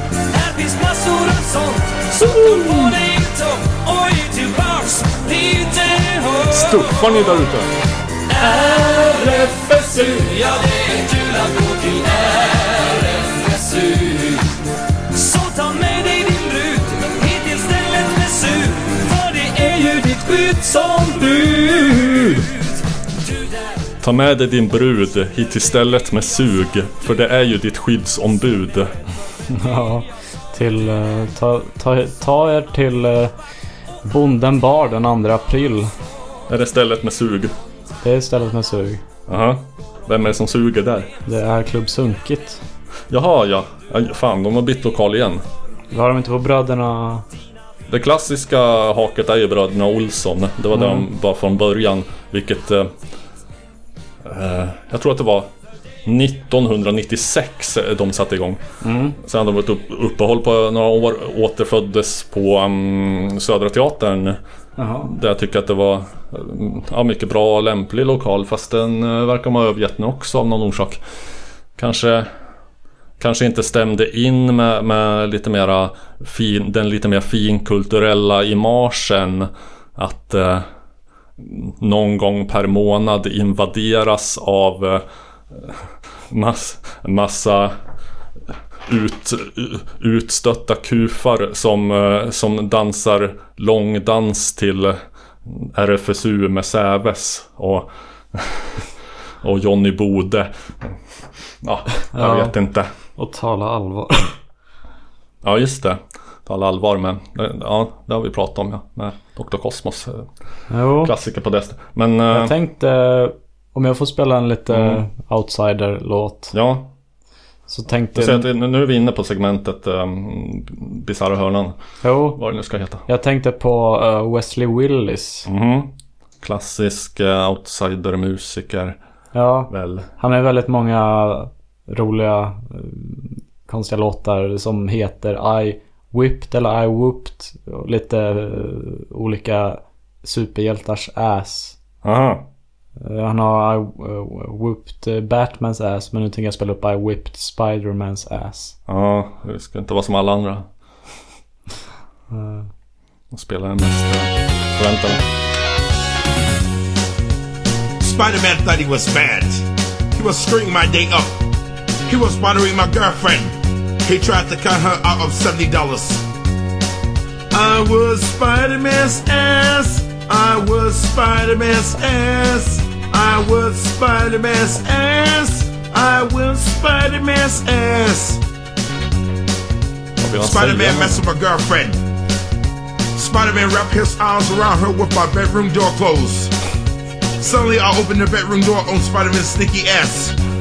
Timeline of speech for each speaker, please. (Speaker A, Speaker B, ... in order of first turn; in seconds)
Speaker A: 0.3-7.5, 8.3-14.5, 15.1-23.8
Speaker B: 2.1-3.0, 6.5-7.7, 9.4-10.2, 24.0-29.0, 36.5-37.5, 39.3-41.1, 43.1-45.4, 47.9-53.0, 54.2-55.5, 56.0-58.6, 59.2-64.4, 65.0-71.0, 71.8-72.3, 73.2-80.7, 81.4-87.8, 88.9-98.9, 99.4-101.0, 101.6-102.9, 105.4-110.3, 111.0-112.5, 114.7-115.0, 116.5-116.9, 118.1-123.0, 125.5-129.0, 129.7-130.1, 142.0-142.4, 148.9-150.7, 153.3-155.2, 180.2-181.2
Speaker C: 29.5-33.3, 34.0-35.9, 38.0-39.0, 41.2-42.6, 45.9-47.2, 50.7-51.0, 58.8-59.2, 64.8-65.1, 102.1-102.5, 103.2-104.3, 110.7-111.1, 112.3-116.5, 117.7-118.5, 122.0-122.4, 123.0-125.5, 129.3-141.8, 143.0-148.8, 152.3-152.7
Speaker D: 158.0-161.4, 162.1-166.2, 167.5-178.4, 180.4-182.0, 183.1-186.5, 187.4-190.3